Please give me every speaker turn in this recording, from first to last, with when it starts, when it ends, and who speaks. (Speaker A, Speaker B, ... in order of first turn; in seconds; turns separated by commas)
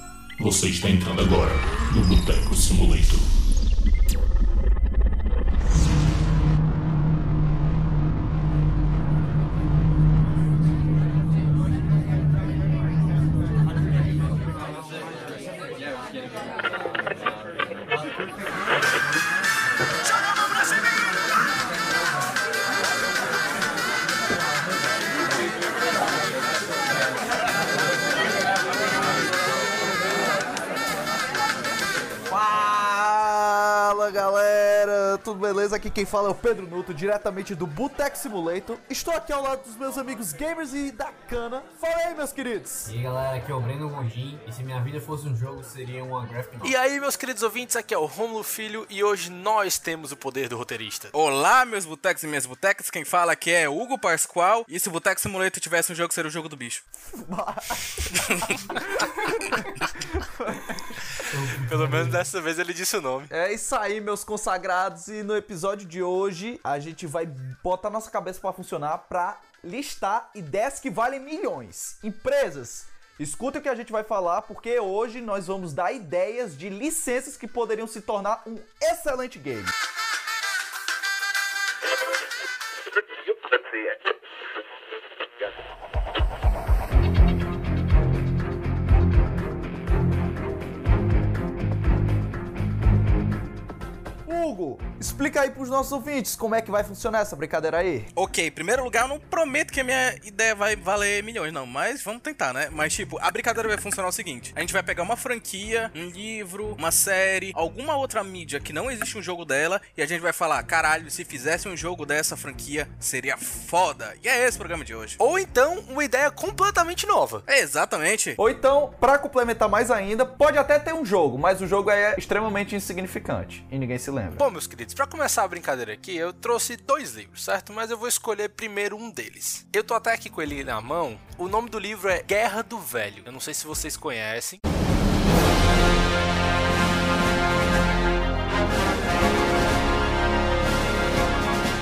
Speaker A: 0.4-3.3, Speaker B: 32.3-42.9, Speaker C: 42.9-46.7, Speaker D: 46.6-51.1, Speaker E: 51.1-56.8, Speaker B: 57.0-60.8, Speaker E: 58.2-58.5, Speaker C: 61.3-62.2, Speaker D: 61.6-63.3, Speaker B: 63.3-79.7, Speaker B: 94.2-98.1, Speaker E: 98.1-115.2, Speaker D: 115.2-117.4, Speaker E: 117.5-118.4, Speaker B: 118.4-124.5, Speaker D: 124.3-134.6